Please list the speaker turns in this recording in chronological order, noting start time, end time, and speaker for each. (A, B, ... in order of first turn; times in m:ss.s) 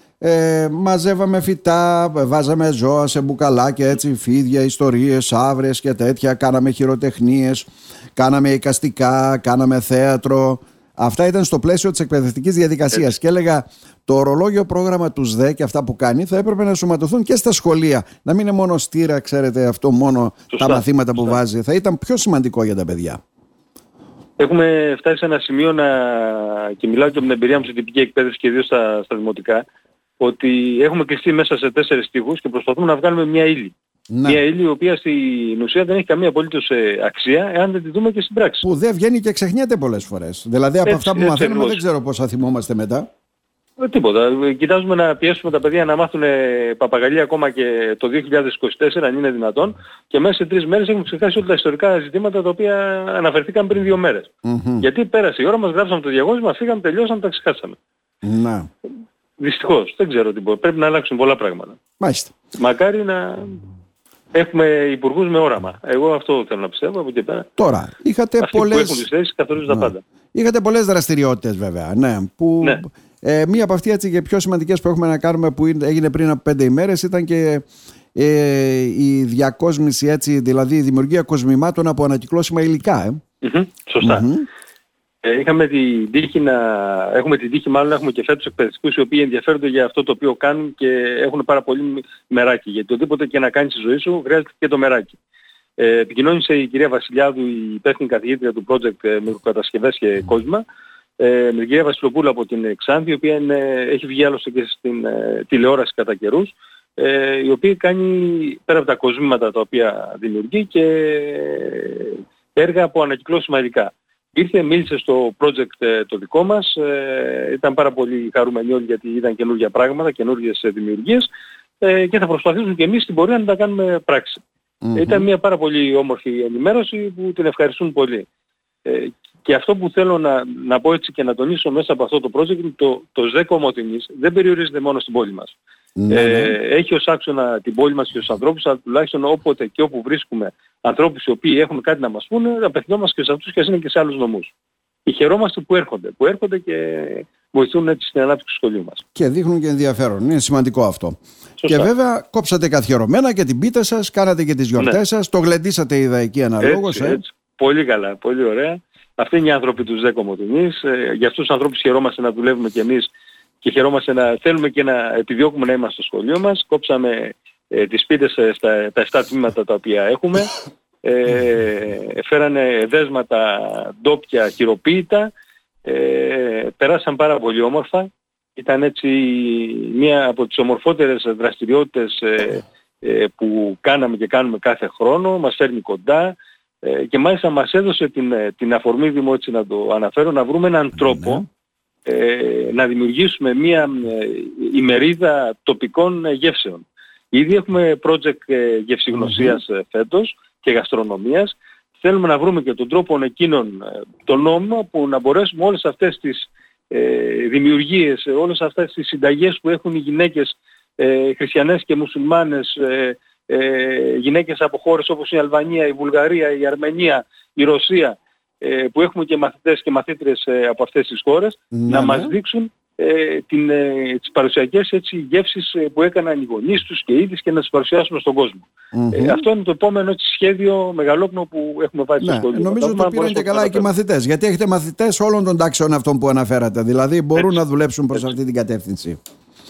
0:00.2-0:23.2 A
0:20.5-0:21.4 B
0:24.4-0:29.6 B
0:30.2-0:33.7 B
0:34.1-0:34.4 A
0:34.2-0:38.6 B
0:38.6-0:43.1 A
0:40.8-0:41.8 B
0:43.8-0:54.3 B
0:54.4-0:54.8 A
0:54.8-0:57.8 B
0:58.2-0:58.7 A
0:59.4-1:01.8 B
1:02.0-1:02.3 A
1:02.6-1:03.6 B
1:04.3-1:07.5 B
1:07.6-1:09.0 A
1:08.4-1:10.0 B
1:09.6-1:23.2 A
1:23.4-1:24.2 B
1:24.0-1:24.4 A
1:25.2-1:35.2 B
1:35.8-1:40.6 B
1:41.2-2:01.3 B
2:01.8-2:04.4 B
2:04.8-2:05.3 A
2:04.9-2:08.3 B
2:08.8-2:15.5 B
2:16.0-2:16.6 A
2:16.1-2:24.5 B
2:25.0-2:29.0 B
2:29.2-2:37.2 A
2:31.6-2:31.9 B
2:36.6-2:43.1 B
2:43.6-2:50.5 B
2:51.0-2:55.3 B
2:55.8-3:11.4 B
3:11.0-3:11.4 A
3:12.0-3:53.9 B
3:19.1-3:19.6 A
3:41.7-3:42.3 A
3:48.9-3:49.4 A
3:52.2-3:59.2 A